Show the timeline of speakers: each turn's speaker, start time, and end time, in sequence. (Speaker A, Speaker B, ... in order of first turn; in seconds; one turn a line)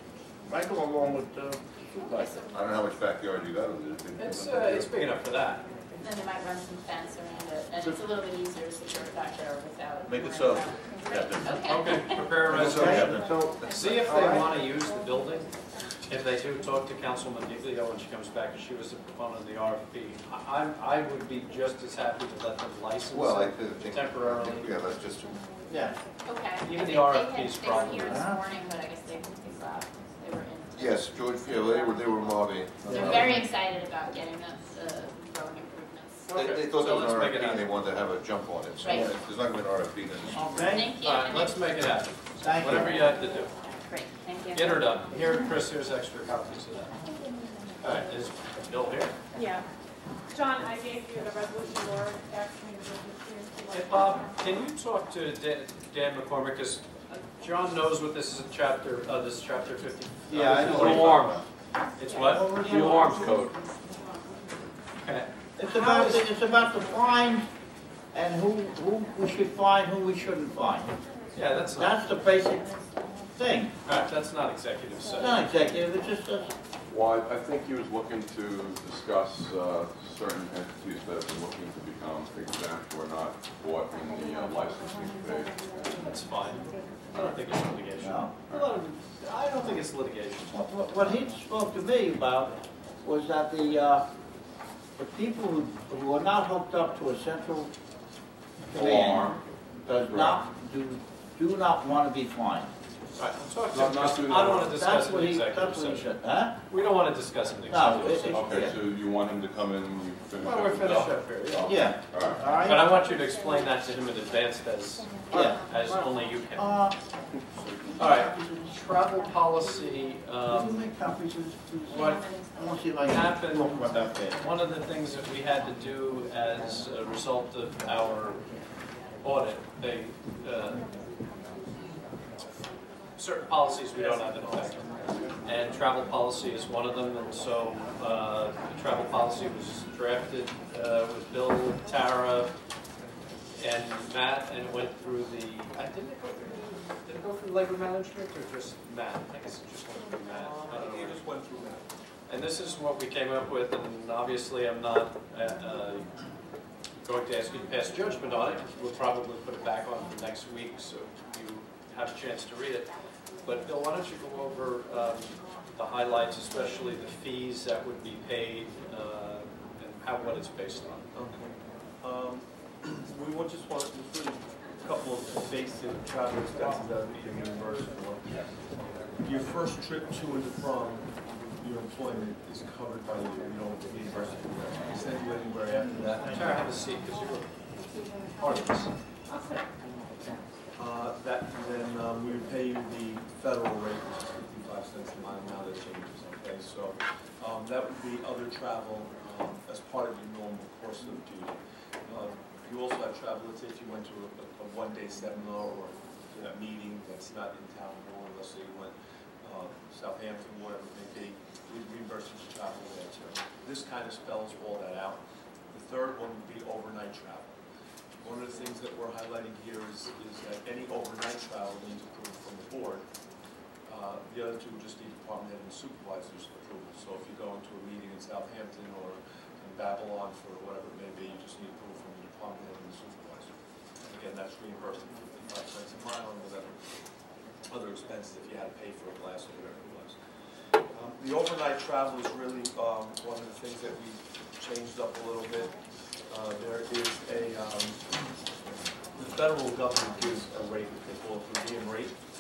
Speaker A: 0.5-1.6
Speaker B: 2.0-2.5
Speaker C: 2.5-4.8
Speaker D: 4.2-5.7
Speaker B: 6.0-12.3
Speaker C: 10.1-11.6
Speaker D: 11.6-15.5
Speaker C: 12.5-14.4
Speaker A: 12.5-13.2
Speaker D: 16.1-24.9
Speaker C: 23.1-25.4
Speaker A: 25.7-25.9
Speaker B: 26.3-36.3
Speaker D: 26.6-28.3
Speaker A: 28.1-28.4
Speaker C: 30.8-33.4
Speaker E: 32.9-33.3
Speaker D: 36.3-37.7
Speaker C: 36.4-40.5
Speaker B: 38.8-39.2
Speaker A: 38.9-39.1
Speaker A: 40.3-40.9
Speaker B: 40.7-41.7
Speaker D: 41.0-43.5
Speaker A: 42.4-43.0
Speaker B: 43.9-44.9
Speaker D: 44.5-47.0
Speaker D: 47.8-49.2
Speaker F: 49.4-49.7
Speaker F: 50.3-54.2
Speaker D: 53.7-61.4
Speaker A: 60.3-61.4
Speaker G: 60.6-61.1
Speaker D: 62.0-63.4
Speaker F: 62.1-62.4
Speaker A: 62.1-63.5
Speaker G: 62.6-63.5
Speaker D: 65.0-66.3
Speaker A: 65.6-67.5
Speaker A: 68.1-71.0
Speaker D: 71.3-72.0
Speaker A: 71.7-72.7
Speaker A: 73.3-73.8
Speaker D: 73.9-75.5
Speaker A: 75.2-76.5
Speaker G: 76.9-86.0
Speaker D: 86.0-90.5
Speaker A: 88.0-88.3
Speaker A: 90.5-94.0
Speaker A: 95.0-97.7
Speaker A: 98.6-102.7
Speaker G: 98.7-99.4
Speaker G: 100.0-100.4
Speaker D: 103.2-106.1
Speaker G: 103.7-104.7
Speaker A: 104.5-106.5
Speaker D: 106.7-108.4
Speaker A: 107.7-108.8
Speaker G: 108.2-112.4
Speaker D: 110.4-111.7
Speaker A: 111.6-112.9
Speaker D: 112.6-116.8
Speaker A: 115.3-115.6
Speaker A: 116.5-117.0
Speaker A: 117.6-118.8
Speaker D: 118.0-120.8
Speaker A: 120.5-124.4
Speaker D: 121.9-122.2
Speaker D: 123.1-128.4
Speaker D: 129.2-130.8
Speaker D: 133.2-142.5
Speaker E: 133.9-135.4
Speaker D: 143.6-151.2
Speaker E: 150.3-151.9
Speaker D: 152.3-156.1
Speaker D: 157.0-162.9
Speaker D: 163.4-171.1
Speaker E: 171.1-178.3
Speaker E: 179.2-181.1
Speaker E: 181.6-186.5
Speaker D: 186.3-187.5
Speaker D: 188.3-188.9
Speaker F: 189.3-189.7
Speaker E: 190.8-217.6
Speaker E: 218.2-223.1
Speaker E: 223.9-233.5
Speaker E: 234.0-236.8
Speaker E: 237.7-240.2
Speaker E: 240.9-245.7
Speaker E: 246.3-248.0
Speaker E: 249.2-252.2